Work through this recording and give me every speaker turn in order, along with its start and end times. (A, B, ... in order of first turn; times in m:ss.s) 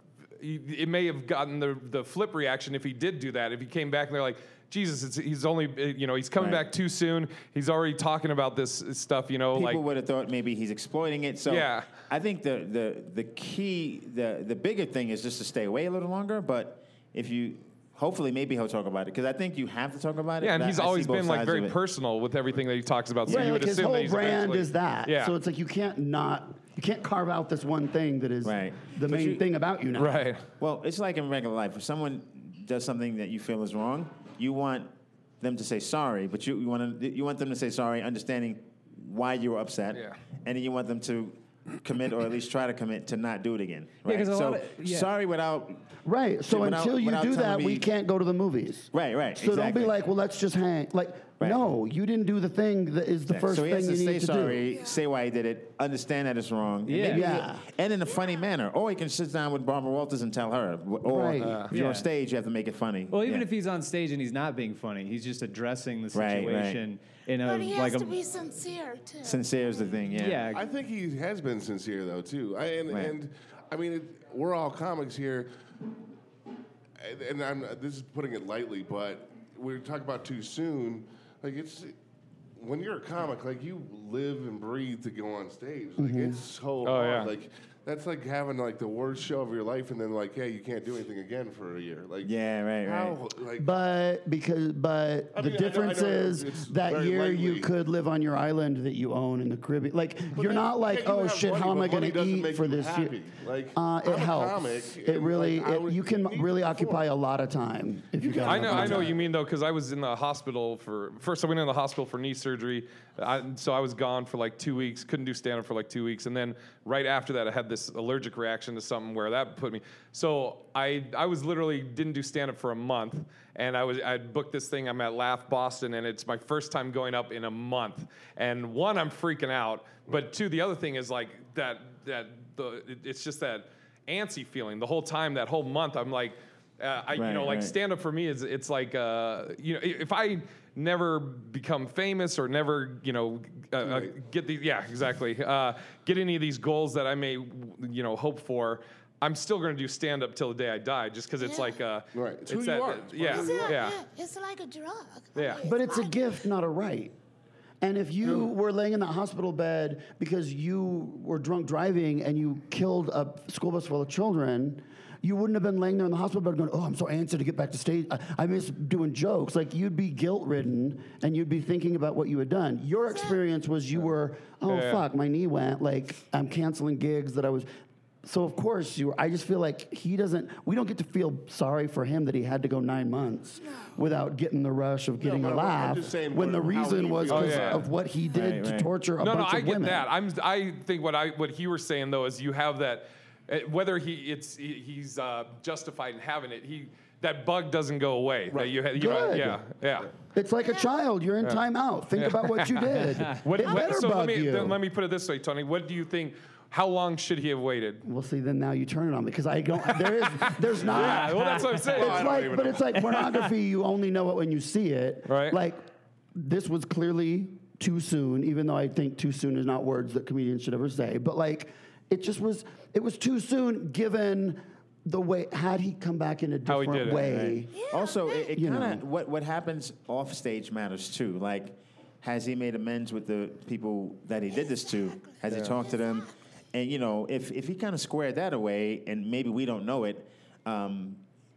0:00.4-0:09.8 A
0:06.4-0:06.7 B
0:09.5-0:21.8 B
0:11.5-0:11.9 A
0:20.4-0:25.3 A
0:23.2-0:30.2 C
0:23.3-0:23.5 B
0:28.4-0:29.4 B
0:30.0-0:30.5 A
0:30.6-0:45.9 B
0:44.0-0:45.1 D
0:46.0-0:54.6 C
0:46.5-0:47.9 B
0:48.9-0:50.0 B
0:51.4-0:51.6 B
0:53.3-1:03.5 B
0:54.7-0:55.0 E
0:56.8-0:57.3 D
0:57.1-0:57.7 C
0:58.0-0:58.5 E
1:01.1-1:01.7 C
1:01.4-1:01.8 A
1:01.7-1:02.1 D
1:03.1-1:08.2 D
1:06.1-1:06.8 B
1:07.4-1:09.5 E
1:09.2-1:10.5 B
1:10.1-1:10.6 D
1:10.5-1:15.5 F
1:12.9-1:13.2 B
1:17.0-1:22.0 F
1:22.6-1:33.7 F
1:26.0-1:26.4 C
1:26.8-1:27.3 A
1:32.2-1:33.2 B
1:33.6-1:43.2 C
1:35.3-1:37.7 F
1:40.3-1:47.0 F
1:43.8-1:49.2 C
1:48.3-2:34.0 A
1:48.8-1:49.1 F
2:17.2-2:17.8 B
2:23.8-2:24.2 F
2:31.4-2:31.8 E
2:32.1-2:33.8 F
2:33.3-2:36.4 E
2:35.4-2:35.7 A
2:35.6-2:37.2 C
2:37.8-2:57.7 C
2:53.1-2:53.4 E
2:54.7-2:55.0 A
2:58.2-3:10.1 C
3:05.2-3:07.9 F
3:07.3-3:07.9 A
3:08.3-3:08.9 B
3:09.2-3:20.1 A
3:19.0-3:19.6 C
3:20.3-3:24.8 C
3:20.6-3:21.0 E
3:22.2-3:28.0 A
3:23.6-3:23.9 E
3:28.0-3:31.4 C
3:30.0-3:32.5 A
3:31.0-3:32.0 D
3:31.9-3:33.2 F
3:32.0-3:35.8 C
3:35.3-3:35.6 A
3:36.4-3:47.9 C
3:46.7-3:47.3 A
3:47.1-4:01.2 B
3:47.7-3:48.6 E
3:48.6-3:49.0 C
3:54.5-3:56.3 E